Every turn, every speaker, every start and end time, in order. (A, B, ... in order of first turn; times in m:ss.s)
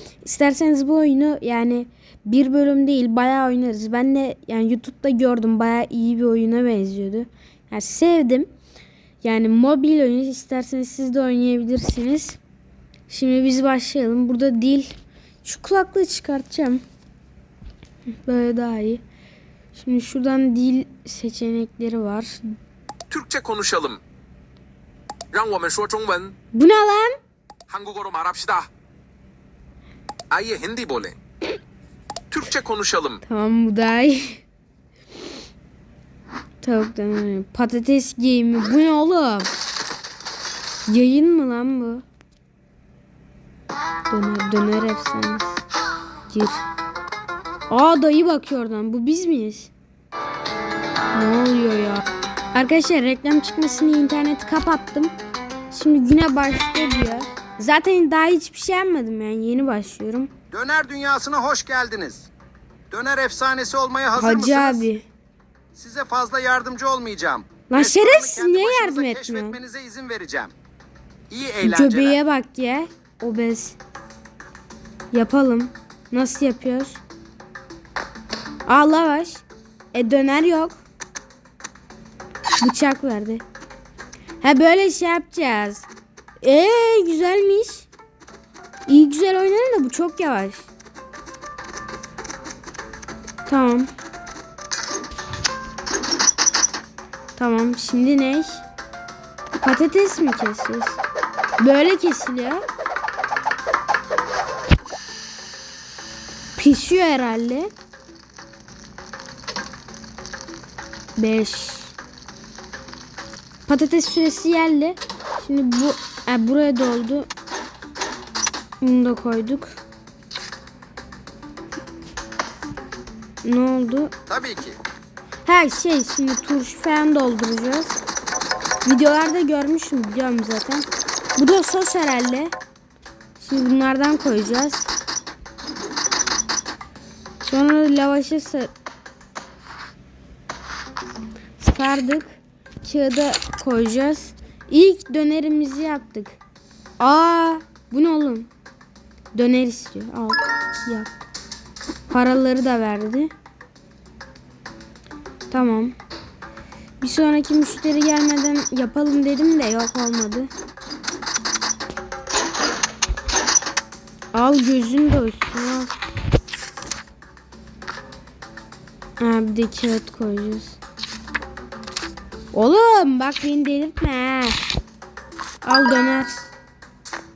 0:00.2-0:08.5 A
0:09.2-0:12.4 A
0:13.1-0:16.8 A
0:18.2-0:19.0 A
0:19.7-0:22.4 A
0:23.1-0:24.0 B
0:25.3-0:26.4 B
0:26.5-0:27.2 A
0:27.7-0:28.7 B
0:30.3-0:31.2 B
0:32.3-0:33.2 B
0:33.2-0:34.4 A
0:36.6-0:39.5 A
0:40.9-0:42.0 A
0:44.1-0:45.6 A
0:46.3-0:46.6 A
0:47.7-0:49.7 A
0:51.1-0:55.2 A
0:55.7-1:00.3 A
1:00.5-1:02.3 C
1:02.9-1:04.9 C
1:04.2-1:05.1 A
1:05.8-1:10.5 C
1:07.7-1:09.6 A
1:11.3-1:12.2 C
1:11.6-1:13.8 A
1:15.1-1:17.0 A
1:18.7-1:20.8 A
1:22.6-1:23.4 A
1:24.4-1:25.9 A
1:26.4-1:27.9 A
1:28.9-1:30.7 A
1:33.5-1:33.9 A
1:37.4-1:38.6 A
1:39.6-1:41.0 A
1:41.6-1:42.6 A
1:46.6-1:47.7 A
1:51.2-1:51.9 A
1:53.7-1:57.3 A
1:58.8-1:59.8 A
2:03.4-2:04.1 A
2:04.3-2:04.8 C
2:05.4-2:08.0 A
2:08.8-2:12.5 A
2:13.4-2:14.9 A
2:17.4-2:18.7 A
2:21.6-2:26.4 A
2:27.0-2:28.5 A
2:29.3-2:31.1 A
2:32.1-2:33.3 A
2:35.5-2:36.0 A
2:37.0-2:40.5 A
2:44.3-2:45.9 A
2:49.2-2:50.8 A
2:52.5-2:54.6 A
2:55.6-2:56.4 A